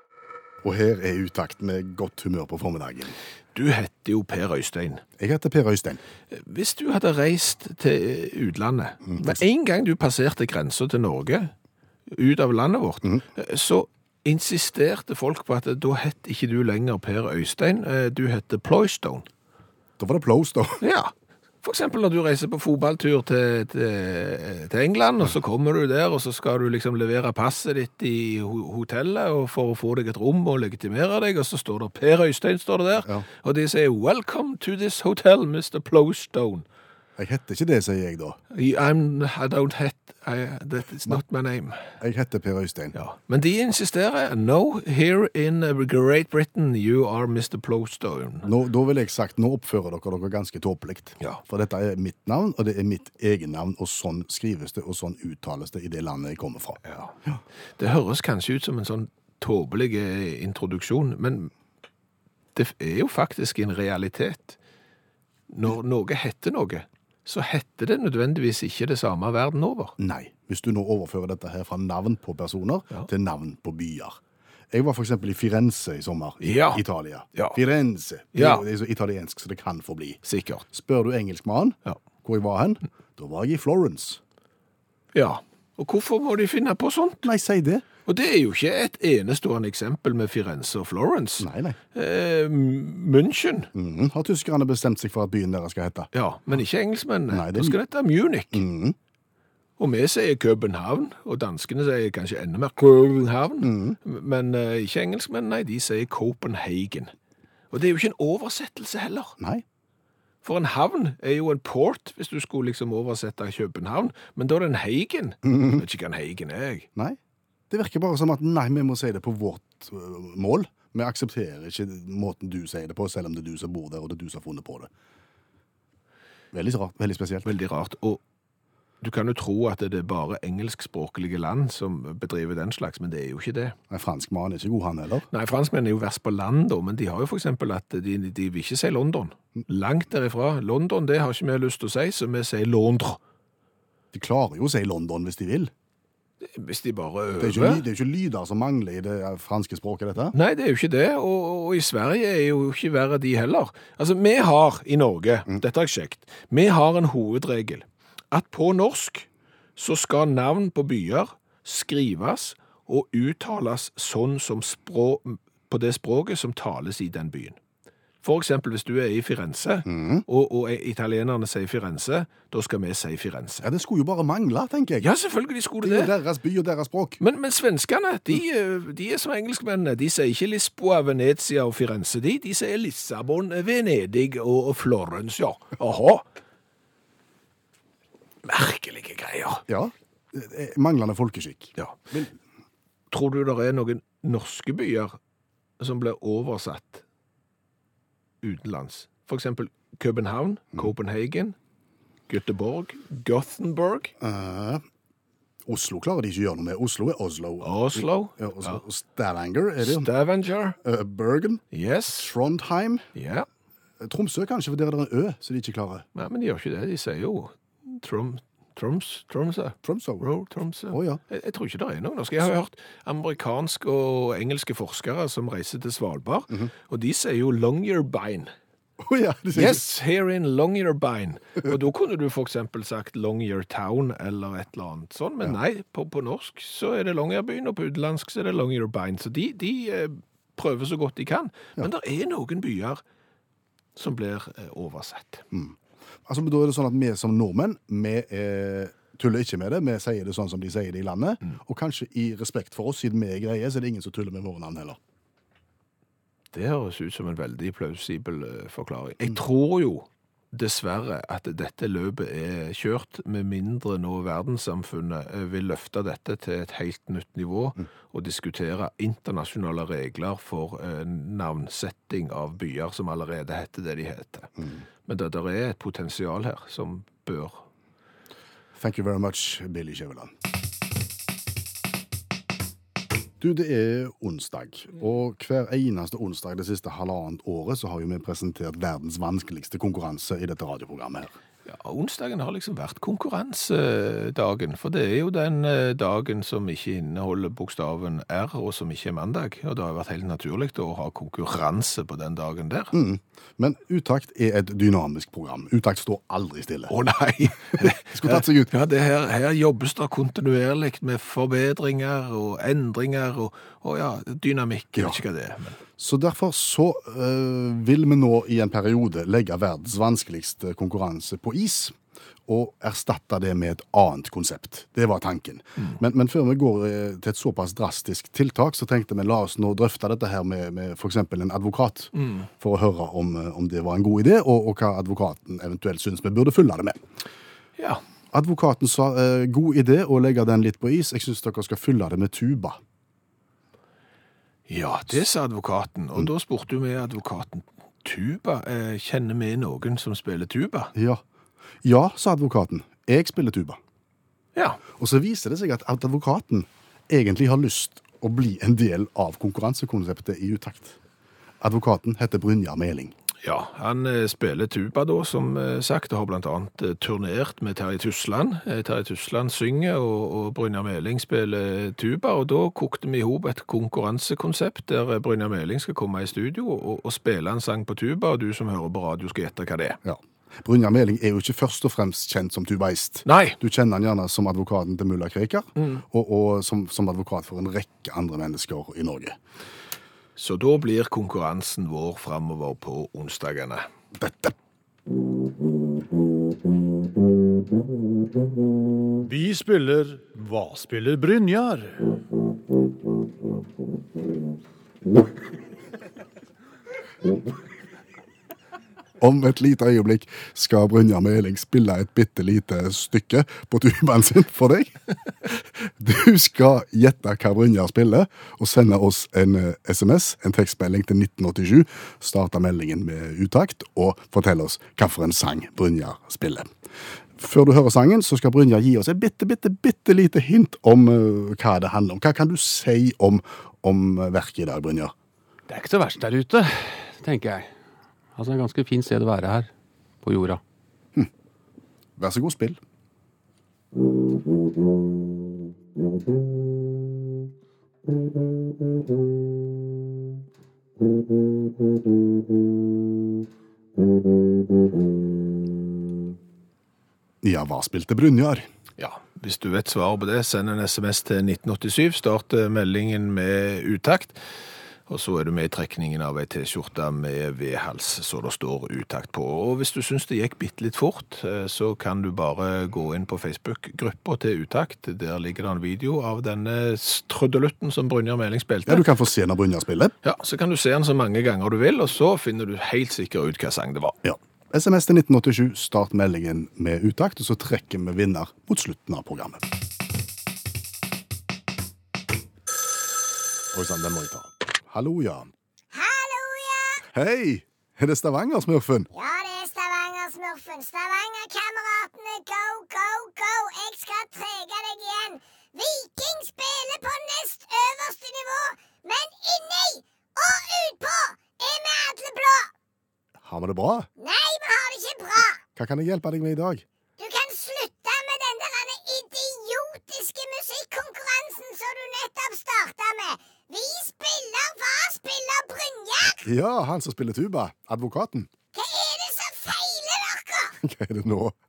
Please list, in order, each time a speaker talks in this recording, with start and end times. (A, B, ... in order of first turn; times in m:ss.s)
0:00.6-0:03.2 A
0:03.5-0:05.0 B
0:05.2-0:06.0 A
0:06.3-0:11.5 B
0:09.0-0:09.4 A
0:12.1-0:19.3 B
0:20.0-0:20.8 A
0:20.8-0:21.1 B
0:21.6-0:36.6 B
0:37.2-0:38.4 A
0:38.5-0:41.8 B
0:42.0-0:42.9 A
0:42.9-0:48.5 B
0:48.4-0:57.4 A
0:56.8-0:57.1 B
0:57.8-1:01.5 B
1:02.5-1:04.6 B
1:05.5-1:09.9 B
1:10.0-1:14.2 A
1:14.7-1:24.2 A
1:16.4-1:16.8 B
1:18.3-1:18.6 B
1:20.2-1:20.6 B
1:25.1-1:27.3 B
1:27.2-1:27.8 A
1:28.0-1:33.7 B
1:31.4-1:31.8 A
1:33.7-1:36.1 A
1:36.1-1:38.6 B
1:37.3-1:37.8 A
1:38.5-1:39.0 A
1:39.8-1:47.1 B
1:43.6-1:44.0 A
1:47.7-1:49.3 B
1:50.4-1:56.9 B
1:55.4-1:55.8 A
1:57.7-2:04.9 A
2:06.5-2:07.5 A
2:07.4-2:08.2 B
2:09.0-2:13.8 B
2:13.9-2:15.3 A
2:15.3-2:23.2 B
2:24.1-2:25.7 A
2:26.4-2:27.8 B
2:27.4-2:30.3 A
2:30.3-2:47.6 B
2:48.2-2:53.6 B
2:49.8-2:50.2 A
2:53.6-2:55.1 A
2:55.0-2:56.1 B
2:55.8-2:57.2 A
2:57.2-3:06.2 B
3:08.4-3:09.6 B
3:09.7-3:12.3 A
3:13.1-3:15.2 B
3:15.8-3:17.0 B
3:18.4-3:21.6 B
3:22.3-3:24.1 B
3:24.2-3:24.8 A
3:25.6-3:30.1 A
3:27.6-3:28.8 B
3:29.8-3:30.8 B
3:30.8-3:33.0 A
3:31.7-3:32.3 B
3:33.1-3:33.4 B
3:34.0-3:36.0 A
3:36.1-3:48.5 B
3:39.8-3:40.2 A
3:40.9-3:41.2 A
3:49.0-3:49.8 A
3:49.5-4:03.0 B
4:04.0-4:05.4 B
4:05.5-4:15.0 A
4:16.5-4:34.5 B
4:35.0-4:37.6 B
4:38.8-4:40.3 A
4:43.4-4:51.4 A
4:51.6-5:02.9 B
5:02.9-5:06.9 A
5:06.9-5:15.8 B
5:07.8-5:08.7 A
5:16.0-5:22.0 A
5:22.5-5:37.0 A
5:32.1-5:32.5 B
5:38.3-5:42.8 A
5:44.7-5:50.9 B
5:50.9-5:51.2 A
5:51.8-5:53.8 A
5:55.0-6:01.0 A
6:01.6-6:03.1 A
6:03.4-6:20.0 B
6:20.0-6:29.4 A
6:23.2-6:23.6 B
6:25.8-6:26.0 B
6:30.4-6:33.9 B
6:34.1-6:34.5 A
6:39.2-6:42.1 C
6:49.2-6:55.0 A
6:55.5-7:06.7 A
7:07.4-7:15.1 A
7:15.7-7:17.7 D
7:18.3-7:19.7 D
7:20.2-7:20.6 D
7:22.2-7:22.8 A
7:37.4-7:38.7 A
7:39.0-7:44.4 B
7:45.1-7:59.0 B
7:58.8-8:00.1 A
8:00.2-8:04.1 B
8:04.2-8:09.6 A
8:13.7-8:15.5 A
8:15.9-8:17.0 E
8:17.1-8:19.1 A
8:19.1-8:32.7 E
8:33.4-8:34.1 A
8:34.2-8:35.6 E
8:35.8-8:36.8 A
8:37.2-8:46.5 E
8:46.4-8:48.5 A
8:48.7-8:50.8 E
8:50.8-8:51.5 A